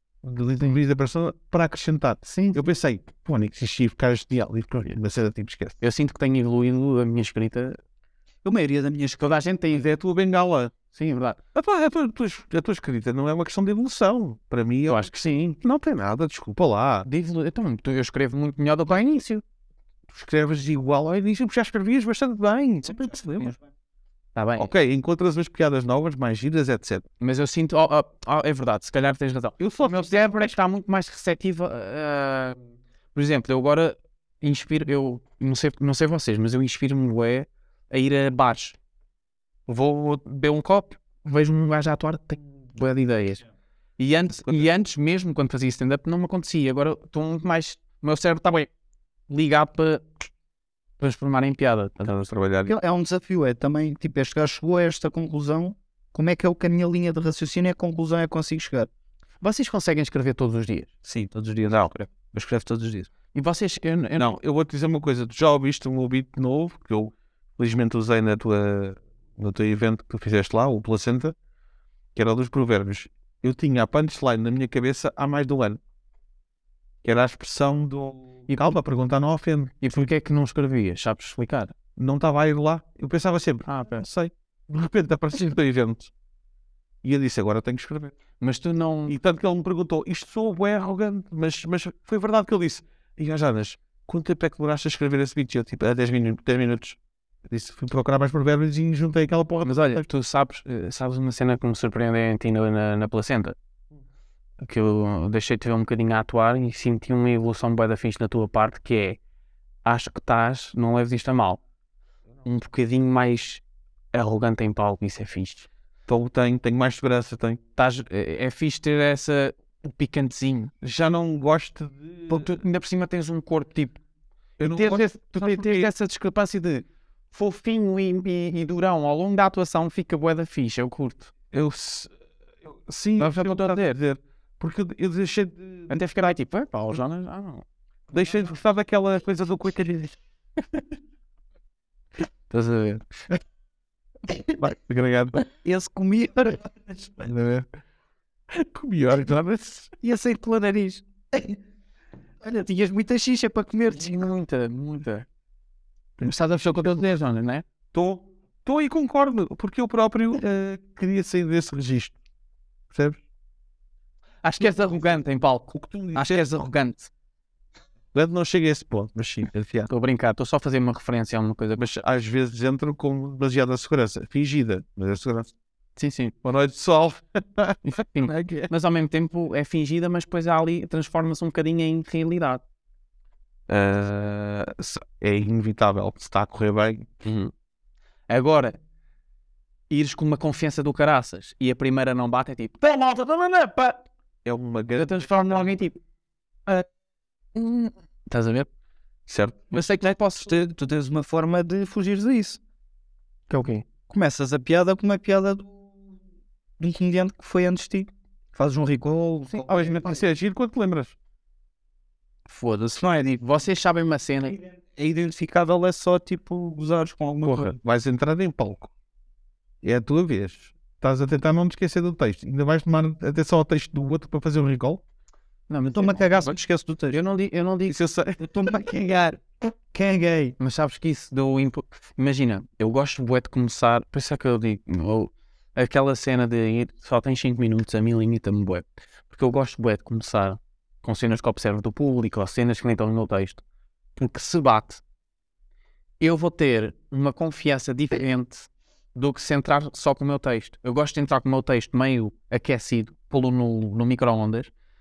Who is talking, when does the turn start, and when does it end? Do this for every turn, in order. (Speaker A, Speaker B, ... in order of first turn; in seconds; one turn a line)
Speaker A: 0.2-5.8
Speaker B: 2.2-2.6
Speaker B: 5.8-7.8
Speaker C: 8.4-9.2
Speaker B: 9.2-9.9
Speaker A: 9.7-10.7
Speaker B: 10.9-11.4
Speaker A: 11.5-15.1
Speaker B: 14.9-15.6
Speaker A: 15.6-17.1
Speaker B: 17.1-19.4
Speaker A: 20.1-23.2
Speaker C: 22.8-23.6
Speaker B: 24.3-24.7
Speaker A: 24.6-27.0
Speaker B: 27.2-32.6
Speaker A: 29.6-30.5
Speaker B: 33.1-38.8
Speaker B: 39.7-43.4
Speaker B: 44.0-48.7
Speaker B: 49.3-50.0
Speaker B: 51.0-52.2
Speaker A: 52.1-52.7
Speaker C: 52.6-58.9
Speaker B: 59.4-60.9
Speaker C: 61.0-63.1
Speaker B: 63.3-64.3
Speaker A: 64.2-71.3
Speaker A: 72.1-75.8
Speaker A: 77.0-80.0
Speaker B: 78.5-78.8
Speaker B: 79.8-81.7
Speaker A: 82.0-86.1
Speaker B: 83.7-84.0
Speaker A: 87.0-88.1
Speaker B: 88.4-89.2
Speaker A: 89.1-100.0
Speaker B: 99.6-103.5
Speaker B: 104.6-109.2
Speaker B: 109.8-111.6
Speaker B: 112.4-113.6
Speaker B: 114.1-115.7
Speaker A: 116.1-117.6
Speaker B: 117.8-120.7
Speaker A: 120.8-122.5
Speaker B: 122.3-124.0
Speaker A: 124.6-125.9
Speaker B: 124.6-131.3
Speaker A: 131.5-132.1
Speaker A: 132.6-135.9
Speaker B: 133.2-134.0
Speaker B: 135.9-137.6
Speaker A: 138.1-140.2
Speaker B: 142.5-143.1
Speaker A: 144.6-145.4
Speaker C: 145.6-147.3
Speaker A: 148.5-149.9
Speaker C: 150.0-151.6
Speaker C: 152.4-154.3
Speaker B: 153.9-155.2
Speaker B: 156.2-157.6
Speaker A: 157.9-162.1
Speaker A: 162.9-163.2
Speaker B: 164.4-167.1
Speaker A: 165.7-166.3
Speaker A: 168.1-169.9
Speaker B: 169.9-171.9
Speaker A: 171.8-175.5
Speaker B: 176.0-176.3
Speaker A: 176.4-178.7
Speaker B: 177.8-182.6
Speaker A: 183.7-187.3
Speaker B: 187.2-187.5
Speaker B: 188.3-188.8
Speaker B: 189.9-194.0
Speaker A: 194.4-195.3
Speaker B: 194.9-196.0
Speaker B: 197.5-198.7
Speaker A: 199.3-199.7
Speaker B: 199.7-200.5
Speaker C: 199.7-202.6
Speaker B: 203.5-203.8
Speaker C: 204.1-205.8
Speaker C: 206.8-210.2
Speaker A: 209.6-211.1
Speaker B: 212.5-214.6
Speaker C: 212.9-213.4
Speaker C: 214.7-217.7
Speaker B: 217.5-217.7
Speaker A: 217.6-218.9
Speaker A: 219.8-225.0
Speaker B: 225.7-226.6
Speaker C: 225.9-227.2
Speaker B: 227.1-228.0
Speaker A: 227.9-228.4
Speaker C: 228.4-230.6
Speaker B: 230.6-243.6
Speaker B: 244.2-245.0
Speaker B: 246.2-254.7